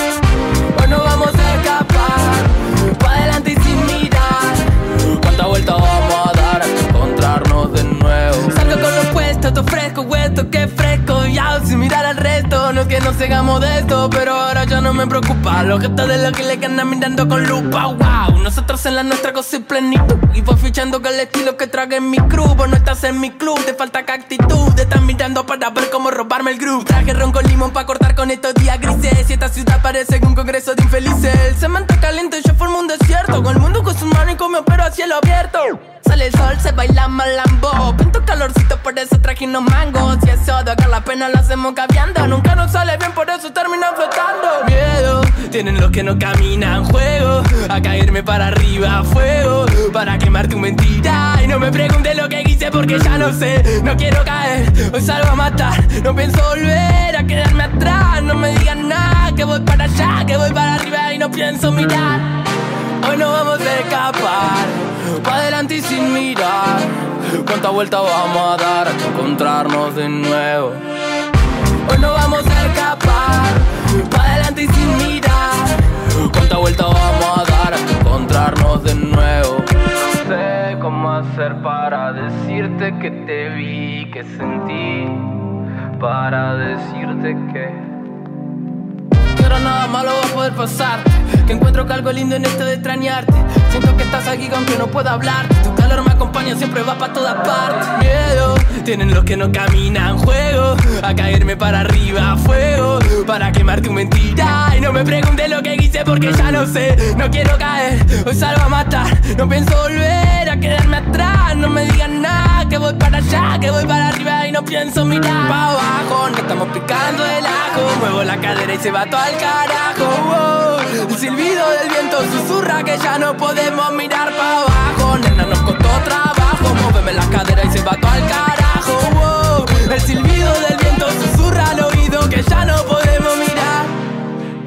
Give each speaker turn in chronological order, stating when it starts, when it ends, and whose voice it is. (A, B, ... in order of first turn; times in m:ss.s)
0:00.7-1:02.5 A
1:03.0-1:10.8 A
1:11.8-1:25.4 A
1:26.0-1:27.8 A
1:29.3-2:14.0 A